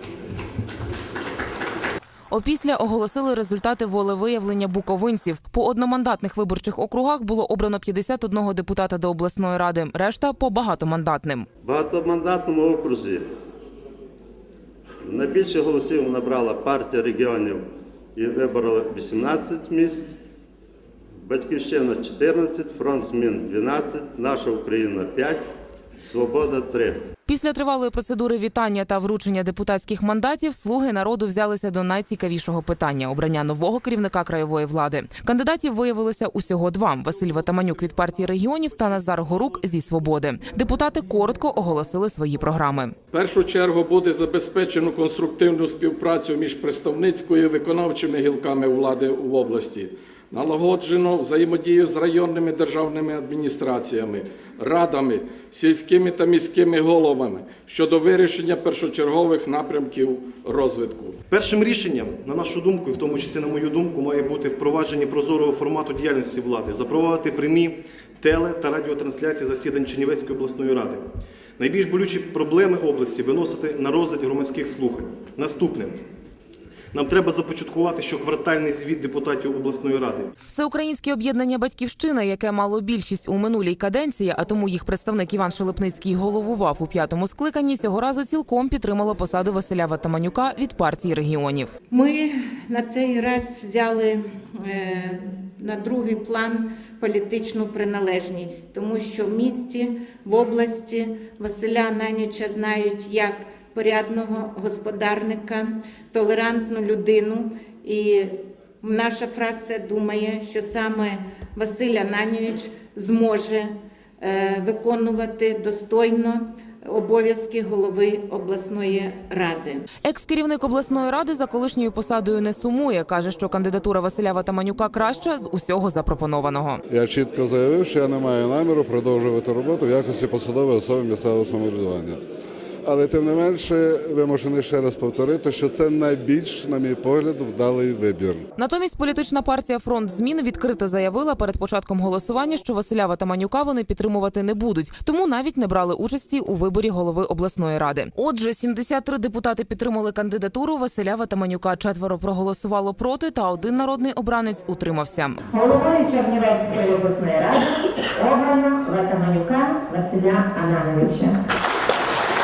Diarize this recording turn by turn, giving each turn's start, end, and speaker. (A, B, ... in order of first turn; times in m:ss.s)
0:02.3-0:11.5 A
0:11.6-0:13.2 B
0:15.0-0:17.6 B
0:18.2-0:20.1 B
0:21.2-0:25.4 B
0:26.0-0:27.0 B
0:27.3-0:42.9 A
0:43.1-1:01.2 C
1:01.3-1:11.0 D
1:11.6-1:16.0 D
1:16.9-1:20.3 D
1:20.5-1:31.7 A
1:31.9-1:59.9 E
2:00.0-2:06.8 A
2:06.9-2:12.2 F
2:12.8-2:18.4 F
2:18.6-2:35.4 A
2:35.5-2:41.4 G